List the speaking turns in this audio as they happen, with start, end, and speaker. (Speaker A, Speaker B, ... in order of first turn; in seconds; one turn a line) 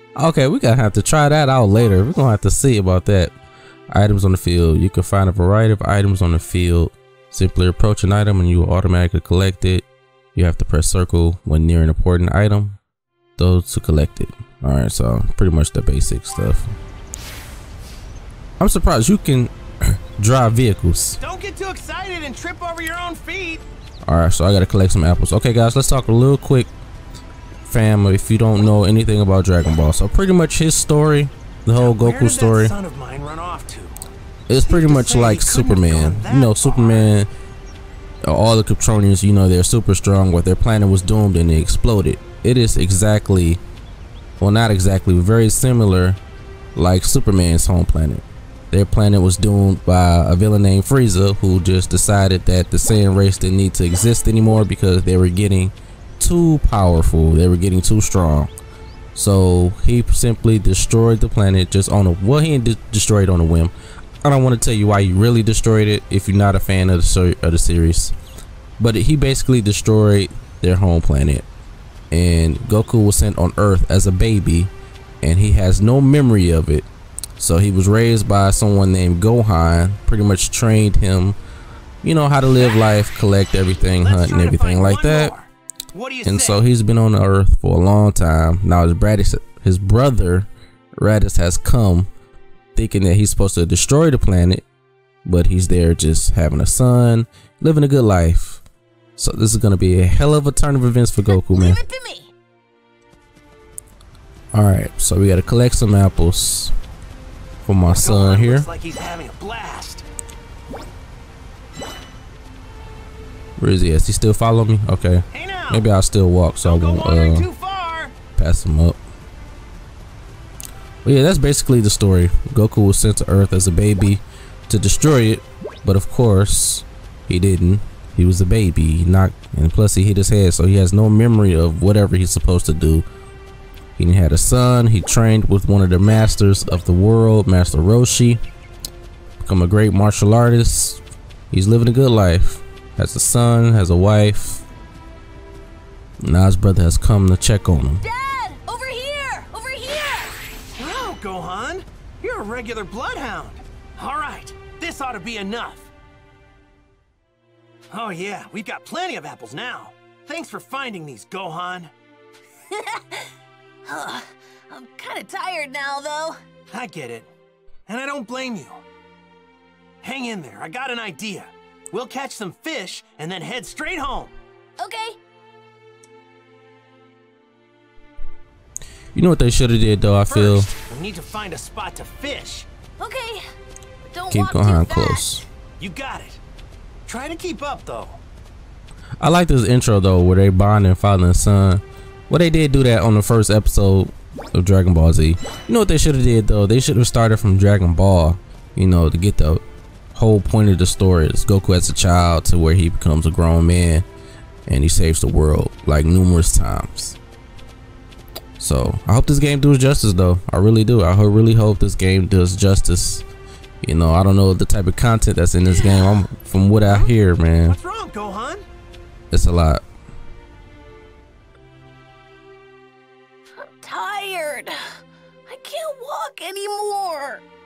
Speaker A: 0.1-3.3
Speaker A: 3.9-12.8
Speaker A: 13.4-16.7
Speaker A: 18.6-21.2
Speaker B: 21.2-23.6
Speaker A: 24.1-26.7
Speaker A: 27.6-32.8
Speaker B: 31.7-34.1
Speaker A: 34.5-37.3
Speaker B: 34.6-37.2
Speaker A: 38.2-43.6
Speaker A: 44.4-46.2
Speaker A: 46.8-58.5
Speaker A: 59.1-68.1
Speaker A: 68.8-71.5
Speaker A: 72.1-76.9
Speaker A: 77.4-81.4
Speaker A: 82.0-85.3
Speaker B: 84.0-86.6
Speaker A: 86.2-92.1
Speaker A: 92.8-94.6
Speaker A: 95.2-98.6
Speaker A: 99.2-101.8
Speaker C: 101.3-102.3
Speaker A: 104.5-106.7
Speaker A: 107.6-108.7
Speaker B: 107.9-110.0
Speaker A: 113.6-117.5
Speaker B: 115.3-115.9
Speaker B: 116.6-118.1
Speaker A: 118.4-119.0
Speaker A: 121.0-133.1
Speaker A: 134.0-138.4
Speaker A: 139.4-144.6
Speaker A: 146.2-148.0
Speaker C: 148.0-150.4
Speaker B: 150.8-155.9
Speaker B: 157.9-161.9
Speaker C: 162.7-163.3
Speaker C: 163.9-166.4
Speaker B: 166.7-167.3
Speaker B: 167.9-168.8
Speaker B: 170.0-174.3
Speaker C: 174.8-175.2
Speaker A: 179.1-180.7
Speaker B: 180.2-182.7
Speaker C: 183.0-183.5
Speaker C: 184.1-185.2
Speaker A: 184.3-185.4
Speaker B: 185.8-186.4
Speaker B: 187.1-188.2
Speaker A: 189.2-199.6
Speaker A: 200.1-204.1
Speaker A: 204.7-207.2
Speaker A: 208.6-213.2
Speaker A: 213.8-217.8
Speaker C: 215.7-216.3
Speaker B: 217.6-218.7
Speaker A: 219.3-219.8
Speaker C: 223.5-227.4